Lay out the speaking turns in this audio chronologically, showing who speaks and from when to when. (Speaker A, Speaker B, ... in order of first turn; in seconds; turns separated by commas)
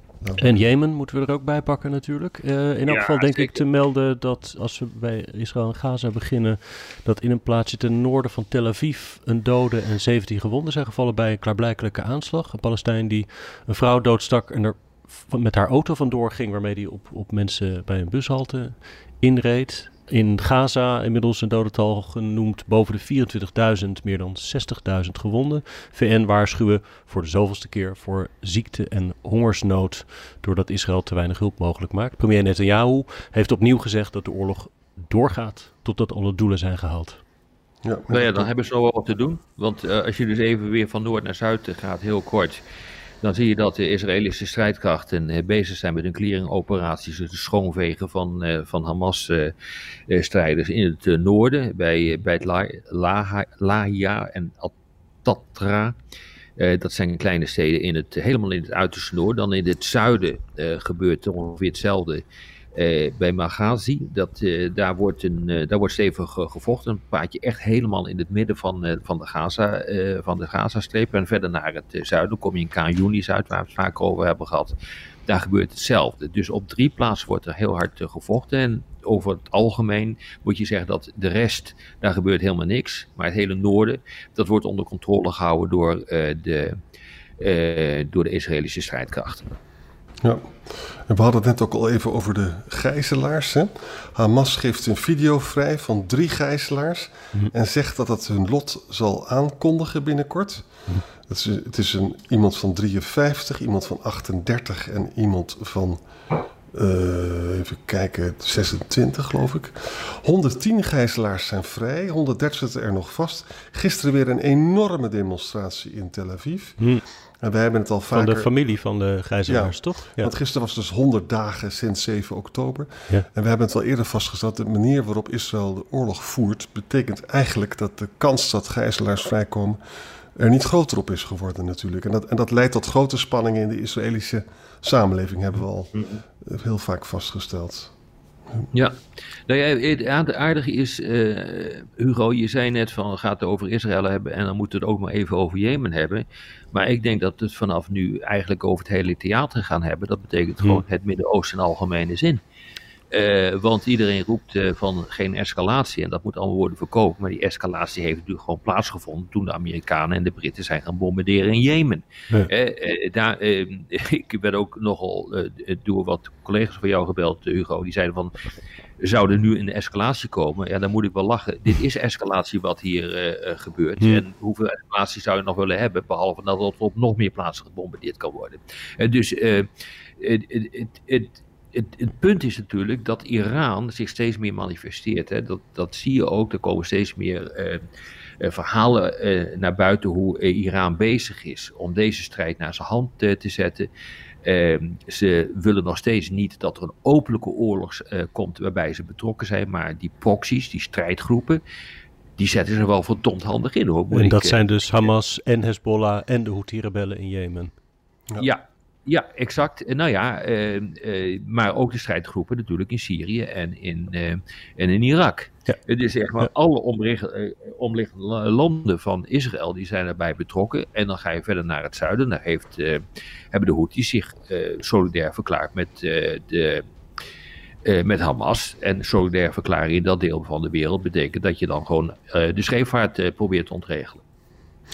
Speaker A: 0.4-37.2, Speaker B: 2.9-3.6, Speaker C: 37.8-38.5, Speaker B: 38.1-42.6, Speaker B: 43.2-49.5, Speaker B: 50.1-56.0, Speaker B: 56.6-74.7, Speaker B: 75.3-86.8, Speaker B: 87.4-89.5, Speaker C: 90.2-100.7, Speaker C: 101.2-106.0, Speaker C: 106.7-116.8, Speaker C: 117.4-118.5, Speaker A: 118.1-120.3, Speaker C: 119.5-129.8, Speaker C: 130.3-137.9, Speaker B: 135.9-136.2, Speaker B: 138.7-139.0, Speaker B: 139.5-152.4, Speaker B: 153.1-168.3, Speaker B: 169.0-179.7, Speaker B: 180.2-187.9, Speaker B: 188.4-193.9, Speaker B: 194.4-201.6, Speaker B: 202.4-205.1, Speaker A: 204.1-207.7, Speaker B: 208.4-226.8, Speaker B: 227.8-234.2